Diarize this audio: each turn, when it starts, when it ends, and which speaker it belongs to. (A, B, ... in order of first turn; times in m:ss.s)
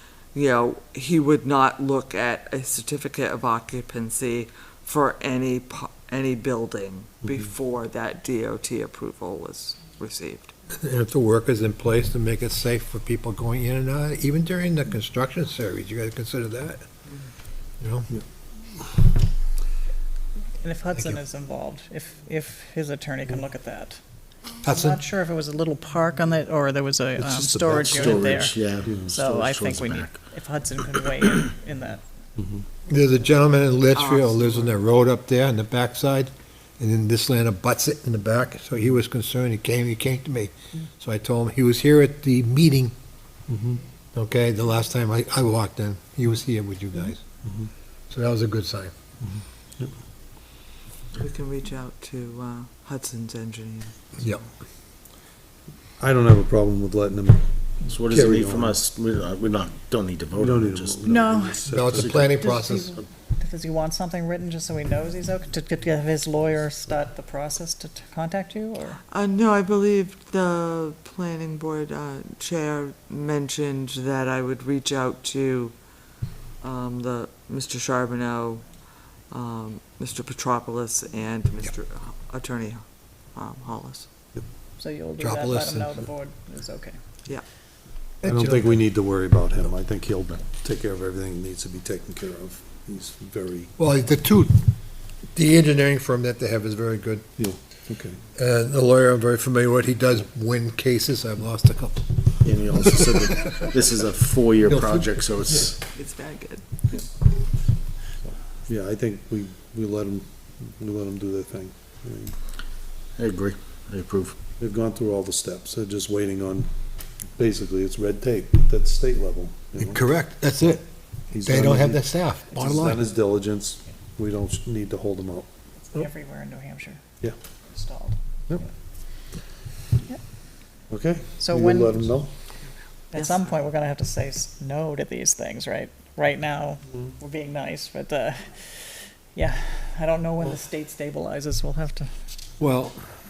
0:00.3-0:10.5 A
0:10.7-0:16.8 B
0:17.8-0:18.1 B
0:20.6-0:24.0 C
0:24.6-0:32.0 C
0:24.6-0:25.0 B
0:27.2-0:29.1 D
0:27.7-0:30.2 E
0:32.4-0:32.6 D
0:32.9-0:42.9 B
0:33.9-0:34.8 A
0:43.5-0:43.8 D
0:44.1-0:47.2 B
0:47.4-0:47.7 D
0:48.1-0:48.9 B
0:49.2-0:49.9 D
0:51.1-0:54.4 A
0:54.2-0:54.5 B
0:56.0-0:58.8 D
0:57.8-1:01.2 E
1:00.4-1:02.2 D
1:01.0-1:01.6 C
1:01.6-1:02.9 B
1:01.9-1:03.0 E
1:02.4-1:09.0 C
1:09.1-1:15.7 A
1:16.6-1:18.6 A
1:19.3-1:24.1 A
1:24.8-1:27.0 C
1:25.2-1:26.1 B
1:28.2-1:28.8 B
1:28.2-1:33.7 D
1:33.8-1:34.7 B
1:35.3-1:37.4 B
1:37.4-1:38.2 D
1:38.4-1:43.6 B
1:42.4-1:45.8 E
1:44.6-1:45.7 B
1:45.9-1:47.0 A
1:48.3-1:52.4 D
1:53.2-1:54.4 E
1:54.6-2:00.0 D
1:59.8-2:03.0 B
2:01.3-2:05.5 D
2:05.8-2:07.0 C
2:07.6-2:08.7 C
2:10.9-2:12.3 D
2:11.4-2:12.0 C
2:13.1-2:22.1 C
2:13.1-2:13.4 A
2:22.6-2:23.1 B